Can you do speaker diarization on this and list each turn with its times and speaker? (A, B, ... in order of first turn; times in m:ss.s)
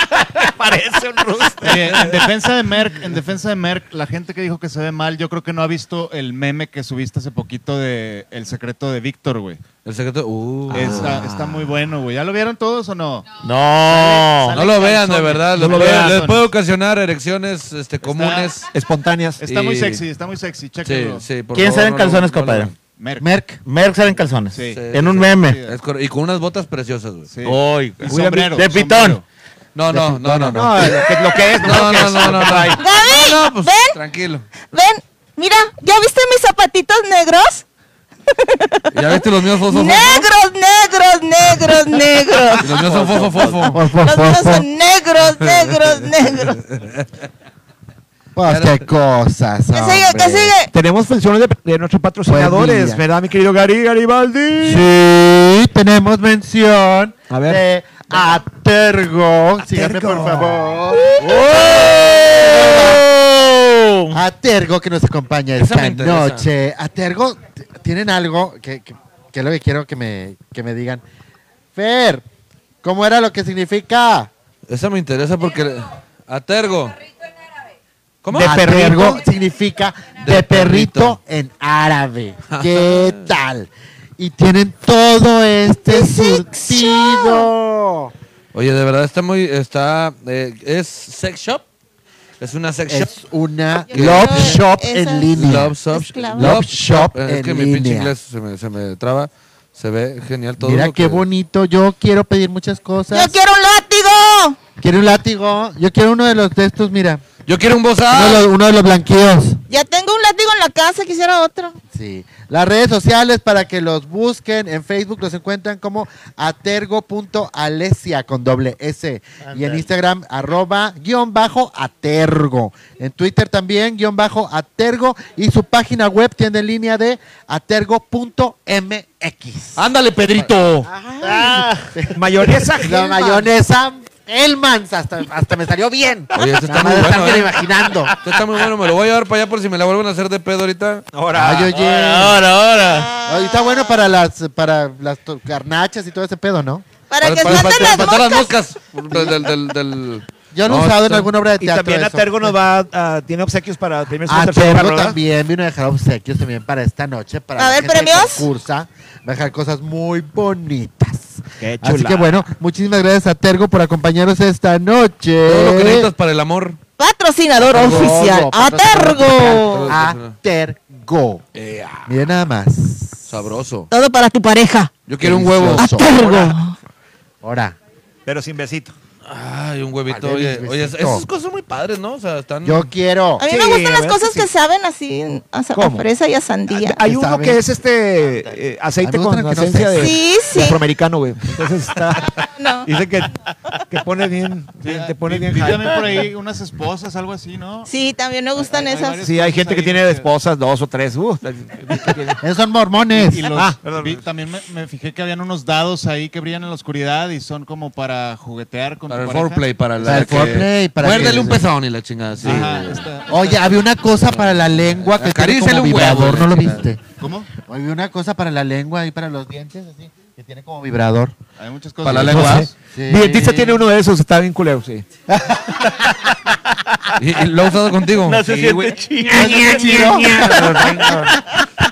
0:00.4-0:02.3 A
0:01.6-0:09.7 B
0:09.8-0:11.3 C
0:10.7-0:11.4 A
0:10.7-0:13.3 B
0:13.4-0:14.6 D
0:13.8-0:16.5 B
0:14.5-0:18.7 C
0:15.5-0:16.4 A
0:18.0-0:18.6 B
0:18.7-0:19.4 A
0:19.4-0:21.3 B
0:19.4-0:20.0 C
0:20.8-0:22.7 C
0:21.5-0:22.7 D
0:23.0-0:23.3 B
0:23.2-0:23.6 E
0:23.6-0:25.6 D
0:24.5-0:25.8 B
0:24.7-0:27.3 C
0:27.3-0:29.2 B
0:27.4-0:29.2 D
0:28.0-0:28.6 A
0:29.8-0:34.4 C
0:29.9-0:32.8 A
0:30.5-0:30.8 E
0:32.8-0:34.0 F
0:34.7-0:37.6 F
0:38.3-0:42.7 F
0:38.9-0:40.3 C
0:42.5-0:43.7 D
0:42.6-0:43.8 C
0:43.6-0:44.7 E
0:44.0-0:46.6 F
0:45.4-0:45.9 C
0:46.7-0:47.1 C
0:48.4-0:50.5 E
0:48.5-0:48.9 C
0:49.7-0:50.7 F
0:50.7-0:54.9 A
0:52.3-0:53.0 E
0:54.6-1:01.2 E
0:57.3-0:57.6 A
0:59.6-1:00.8 A
1:01.2-1:04.2 D
1:02.4-1:03.0 E
1:04.1-1:11.0 E
1:05.6-1:06.5 C
1:11.7-1:12.2 E
1:12.8-1:14.3 E
1:14.7-1:17.0 C
1:18.2-1:19.0 C
1:18.3-1:19.2 A
1:18.3-1:28.1 E
1:20.2-1:21.2 C
1:22.5-1:23.3 C
1:25.8-1:27.5 F
1:28.5-1:31.6 C
1:32.4-1:33.2 C
1:32.9-1:35.8 E
1:33.9-1:36.6 F
1:33.9-1:34.7 C
1:35.3-1:41.2 C
1:36.4-1:38.1 E
1:40.6-1:43.4 E
1:43.1-1:44.6 F
1:44.8-1:47.2 E
1:47.4-1:48.5 C
1:48.1-1:49.6 E
1:49.7-1:51.8 F
1:51.9-2:12.2 E
1:59.5-1:59.8 D
2:09.8-2:10.9 C
2:11.2-2:11.9 D
2:12.1-2:13.5 A
2:12.8-2:18.2 E
2:16.3-2:17.6 C
2:18.2-2:21.1 C
2:21.1-2:21.8 A
2:21.3-2:22.4 E
2:21.7-2:23.1 D
2:22.9-2:24.0 F
2:23.3-2:26.8 E
2:27.1-2:28.5 F
2:27.2-2:31.3 C
2:30.5-2:32.6 E
2:31.6-2:35.2 A
2:34.3-2:46.1 E
2:37.6-2:38.5 F
2:41.6-2:42.3 A
2:45.5-2:46.8 C
2:47.0-2:49.9 F
2:47.6-2:51.4 E
2:49.5-2:50.4 C
2:51.6-2:52.2 C
2:52.1-2:53.3 E
2:53.3-2:53.9 C
2:53.9-2:54.9 F
2:55.1-2:56.0 C
2:55.2-2:56.5 E
2:55.8-2:56.8 F
2:57.4-2:57.8 E
2:58.3-2:59.0 A
2:59.3-3:02.9 C
3:00.1-3:01.2 E
3:02.6-3:03.4 E
3:03.4-3:07.0 F
3:03.4-3:04.5 A
3:05.7-3:06.1 A
3:06.7-3:12.3 A
3:07.0-3:07.6 E
3:09.0-3:10.2 E
3:09.9-3:10.8 F
3:12.6-3:12.9 F
3:12.8-3:13.3 A
3:13.9-3:16.2 A
3:14.8-3:17.9 B
3:17.9-3:19.2 F
3:18.6-3:20.3 B
3:19.2-3:22.4 A
3:22.4-3:23.8 E
3:23.1-3:30.3 B
3:23.6-3:24.2 A
3:29.1-3:33.0 C
3:30.0-3:31.7 E
3:32.4-3:34.0 B
3:32.4-3:37.0 E
3:34.4-3:36.9 C
3:37.2-3:37.5 B
3:37.5-3:41.3 E
3:41.6-3:42.8 B
3:42.0-3:42.7 C
3:42.1-3:45.0 A
3:42.3-3:43.8 E
3:45.4-3:45.8 E
3:47.2-3:48.8 C
3:48.2-3:51.3 D
3:48.5-3:51.3 A
3:49.3-3:50.9 E